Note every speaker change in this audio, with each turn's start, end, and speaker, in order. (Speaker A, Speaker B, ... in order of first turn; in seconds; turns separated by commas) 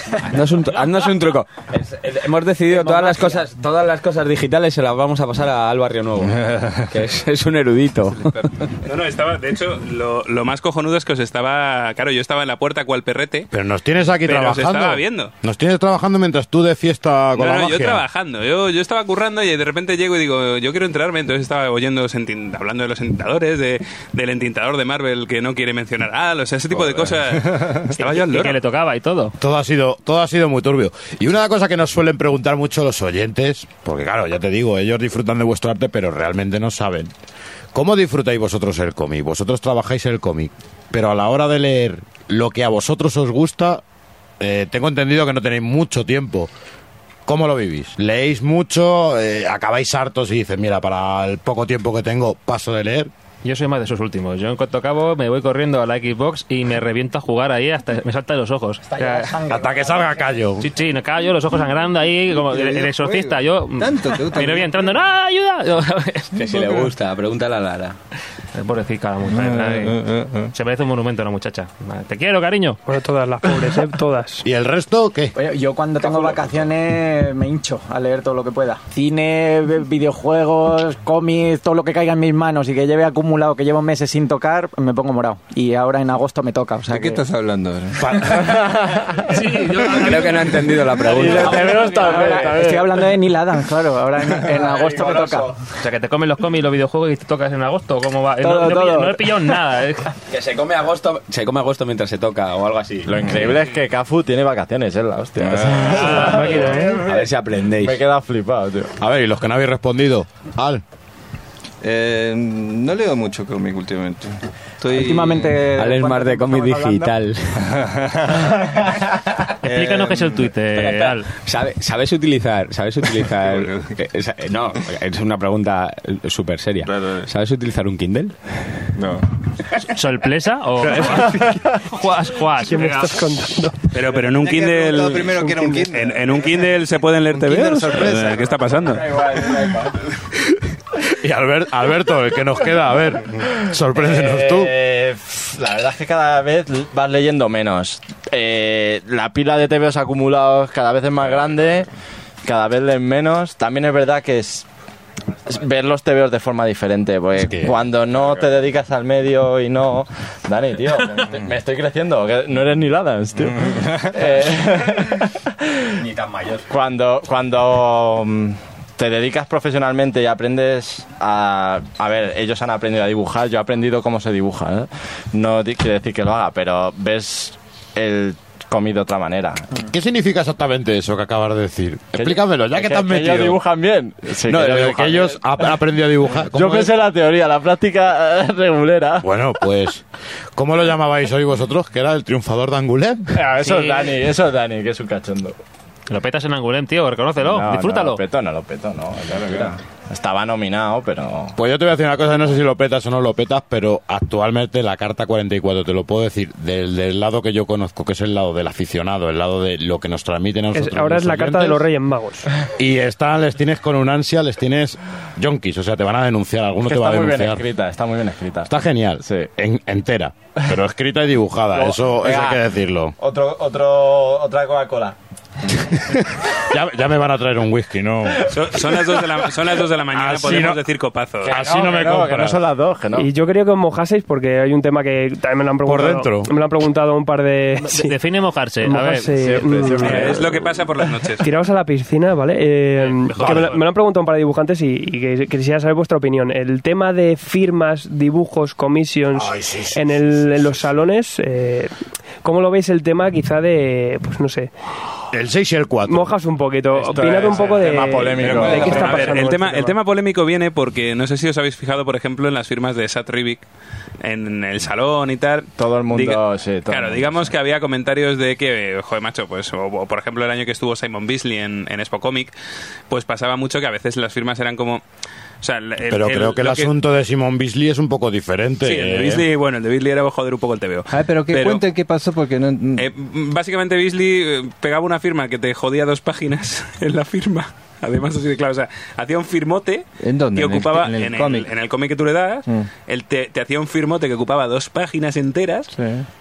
Speaker A: 0.2-8.3, Speaker B: 2.8-3.3, Speaker C: 6.3-6.8, Speaker C: 8.1-8.8, Speaker D: 8.8-13.5, Speaker E: 13.5-18.0, Speaker D: 14.2-15.3, Speaker D: 17.4-28.6, Speaker C: 26.7-28.0, Speaker F: 28.0-29.3, Speaker E: 29.4-37.1, Speaker E: 37.7-43.8, Speaker E: 44.4-46.5, Speaker E: 47.2-53.1, Speaker F: 53.4-59.3, Speaker B: 58.9-60.4, Speaker E: 59.5-60.7, Speaker F: 60.6-66.3, Speaker C: 62.3-64.9, Speaker A: 66.3-68.0, Speaker C: 66.4-66.9, Speaker F: 68.5-70.0, Speaker C: 69.3-70.5, Speaker F: 70.5-72.8, Speaker G: 72.9-74.4, Speaker E: 74.4-75.3, Speaker B: 75.3-87.2, Speaker C: 86.9-88.5, Speaker E: 88.0-88.8, Speaker F: 89.3-92.4, Speaker A: 89.9-92.6, Speaker C: 90.1-90.3, Speaker C: 91.0-93.2, Speaker B: 91.5-95.5, Speaker A: 94.5-95.5, Speaker F: 95.8-100.1, Speaker B: 98.4-99.3, Speaker A: 100.3-103.6, Speaker H: 103.0-108.9, Speaker C: 105.4-106.9, Speaker A: 105.9-108.0, Speaker G: 105.9-107.0, Speaker E: 109.0-110.8, Speaker C: 111.8-116.0, Speaker B: 114.9-117.2, Speaker A: 115.8-117.7, Speaker C: 117.6-118.8, Speaker F: 119.6-121.3, Speaker C: 119.7-120.5, Speaker A: 120.7-128.8, Speaker C: 123.2-123.9, Speaker C: 126.8-127.2, Speaker C: 128.9-129.3, Speaker F: 129.8-133.2, Speaker C: 130.8-131.8, Speaker G: 132.7-133.8, Speaker D: 133.9-139.0, Speaker C: 134.0-139.9, Speaker G: 135.4-135.8, Speaker A: 138.9-139.9, Speaker E: 141.2-144.7, Speaker H: 143.9-151.9, Speaker H: 152.4-154.6, Speaker H: 155.4-165.8, Speaker E: 157.4-157.8, Speaker A: 166.0-166.6, Speaker H: 166.7-179.8, Speaker E: 179.8-183.6, Speaker H: 182.2-185.8, Speaker E: 184.5-186.9, Speaker H: 186.4-189.3, Speaker E: 189.2-193.4, Speaker H: 193.3-195.6, Speaker F: 193.6-194.2, Speaker F: 196.1-198.2, Speaker H: 197.4-201.6, Speaker E: 201.6-211.8, Speaker G: 210.7-212.5, Speaker E: 212.7-217.6, Speaker H: 216.8-219.5, Speaker E: 218.7-223.1, Speaker H: 221.7-222.6, Speaker H: 223.2-225.2, Speaker E: 226.6-229.2, Speaker D: 228.5-231.6, Speaker E: 230.1-230.8, Speaker E: 231.4-232.6, Speaker H: 231.4-233.3, Speaker G: 233.2-238.1, Speaker E: 235.8-236.5, Speaker F: 237.9-239.3, Speaker G: 238.8-240.4, Speaker H: 239.4-240.8, Speaker C: 239.7-240.6, Speaker D: 240.0-241.4, Speaker G: 241.4-251.9, Speaker D: 243.1-243.8, Speaker F: 243.3-243.7, Speaker E: 249.3-250.8, Speaker G: 252.4-254.7, Speaker E: 255.3-256.3, Speaker G: 256.1-260.0, Speaker D: 257.0-263.6, Speaker E: 257.1-259.0, Speaker H: 257.3-259.3, Speaker C: 258.6-259.3, Speaker D: 264.2-272.5, Speaker H: 265.8-267.5, Speaker D: 273.1-275.0, Speaker D: 275.6-276.9, Speaker E: 276.1-279.4, Speaker D: 278.8-281.8, Speaker C: 281.1-283.1, Speaker D: 283.0-295.9, Speaker C: 290.2-291.7, Speaker C: 292.6-292.9, Speaker C: 295.9-296.2